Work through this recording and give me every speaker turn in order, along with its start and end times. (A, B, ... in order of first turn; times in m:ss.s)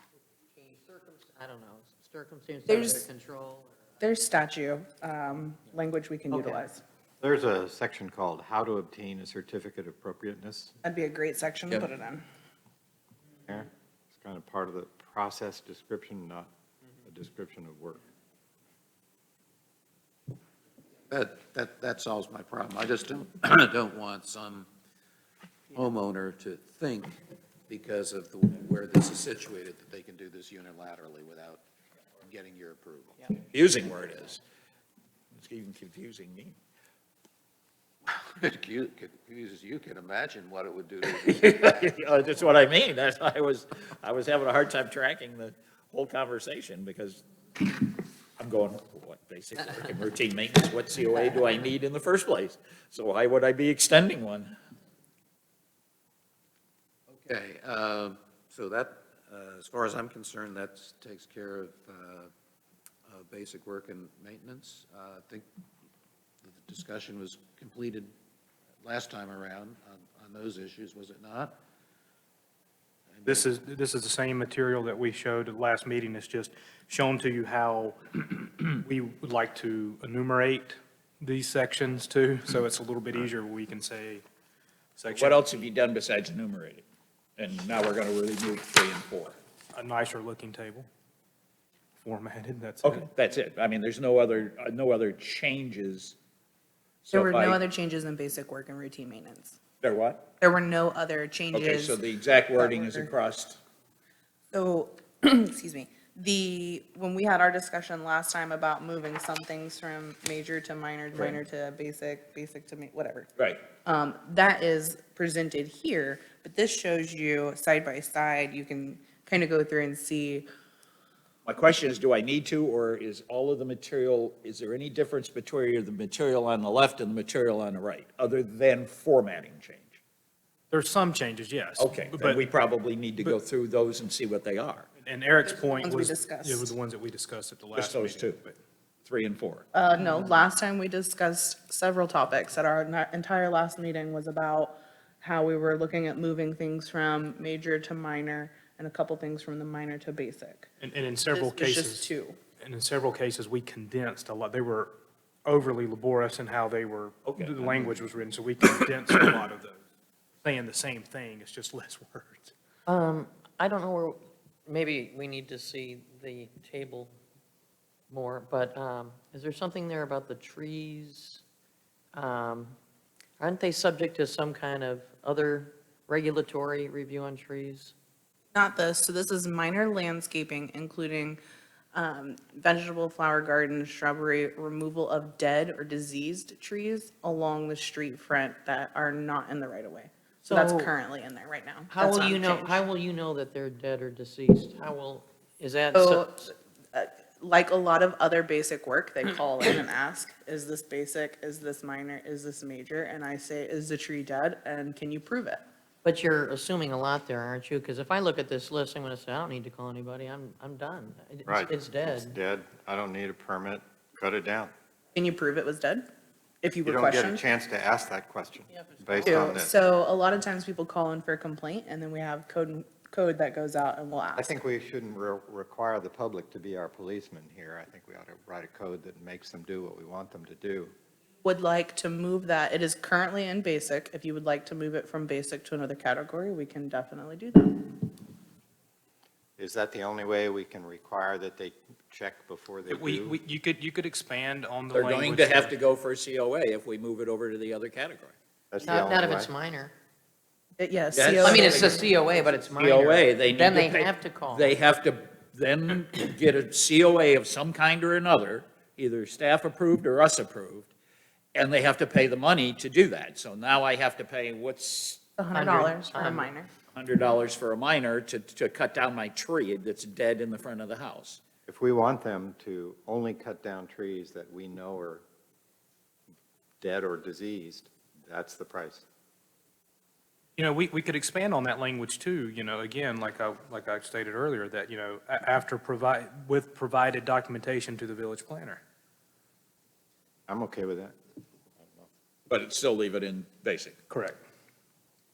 0:00.5-0:03.7 A
0:02.7-0:03.0 B
0:04.0-0:06.8 B
0:06.3-0:06.7 A
0:07.2-0:10.7 C
0:10.8-0:12.2 B
0:13.4-0:16.5 C
0:17.0-0:18.0 C
0:21.1-0:24.7 D
0:25.7-0:27.2 D
0:27.7-0:31.6 D
0:32.2-0:33.3 D
0:33.5-0:34.4 E
0:35.3-0:36.6 E
0:38.1-0:41.7 D
0:41.1-0:54.5 E
0:57.1-1:02.3 D
1:03.0-1:05.5 D
1:06.4-1:08.1 D
1:08.8-1:11.6 D
1:13.1-1:13.6 D
1:13.2-1:24.2 F
1:25.0-1:25.4 F
1:25.1-1:26.8 E
1:27.4-1:29.4 E
1:29.7-1:30.9 F
1:32.0-1:33.0 F
1:32.8-1:36.2 E
1:37.0-1:37.6 E
1:37.1-1:39.6 B
1:39.8-1:40.3 E
1:40.4-1:43.1 B
1:41.5-1:43.6 E
1:44.5-1:53.3 B
1:53.4-1:53.6 E
1:53.8-2:00.5 B
2:01.4-2:10.0 E
2:10.7-2:12.4 F
2:11.8-2:14.9 E
2:15.0-2:18.6 F
2:15.4-2:16.7 B
2:17.7-2:18.4 E
2:19.0-2:19.6 E
2:19.7-2:30.7 B
2:30.8-2:34.9 F
2:31.3-2:32.4 B
2:35.4-2:39.8 F
2:37.2-2:38.1 E
2:40.4-2:42.5 F
2:42.9-2:47.1 A
2:48.1-2:51.4 A
2:52.1-2:52.8 A
2:53.4-2:57.9 A
2:58.5-3:01.4 B
3:01.9-3:12.8 B
3:10.4-3:10.9 A
3:11.9-3:16.5 A
3:15.9-3:25.6 B
3:26.0-3:32.4 A
3:31.4-3:34.7 C
3:35.1-3:36.0 B
3:36.6-3:37.4 B
3:36.8-3:39.7 C
3:39.2-3:44.5 B
3:44.4-3:50.9 C
3:51.4-3:58.1 B
3:59.6-4:03.4 C
4:02.9-4:05.8 F
4:04.9-4:08.3 E
4:08.7-4:09.5 C
4:08.8-4:09.9 A
4:10.8-4:12.0 B
4:11.1-4:20.9 E
4:11.4-4:14.8 A
4:21.5-4:25.2 E
4:25.4-4:26.7 B
4:25.5-4:26.5 A
4:26.9-4:31.4 E
4:31.6-4:35.2 C
4:36.8-4:39.0 C
4:40.6-4:48.8 F
4:50.5-4:51.1 C
4:51.8-4:52.1 C
4:52.5-4:54.0 E
4:54.1-4:54.4 F